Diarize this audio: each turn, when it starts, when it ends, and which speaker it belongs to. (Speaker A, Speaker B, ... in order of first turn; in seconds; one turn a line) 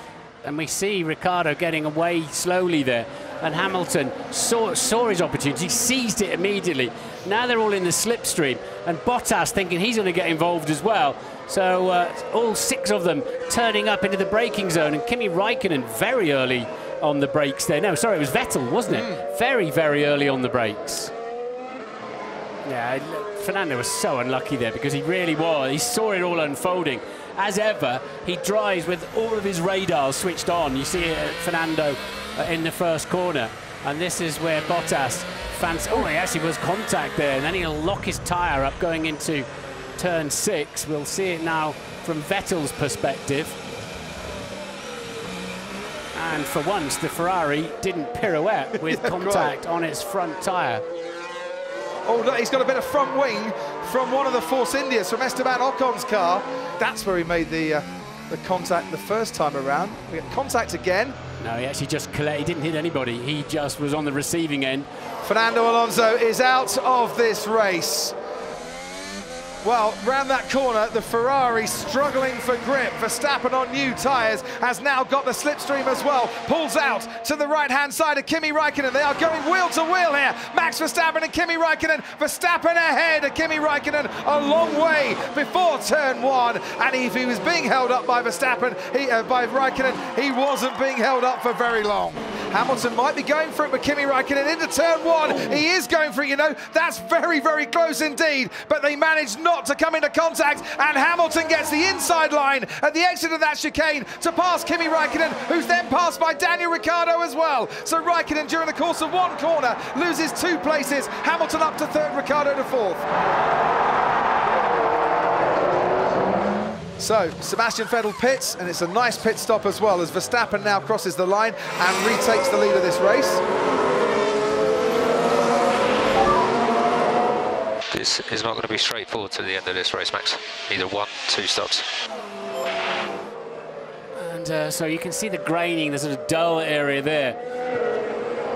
Speaker A: 0.4-21.1
Speaker A: 22.6-39.5
Speaker A: 40.0-43.6
Speaker A: 46.1-50.8
Speaker B: 48.8-49.5
Speaker B: 52.1-61.2
Speaker A: 61.4-64.9
Speaker B: 65.2-68.1
Speaker B: 69.6-113.0
Speaker B: 117.0-123.4
Speaker C: 127.9-131.8
Speaker A: 134.2-137.4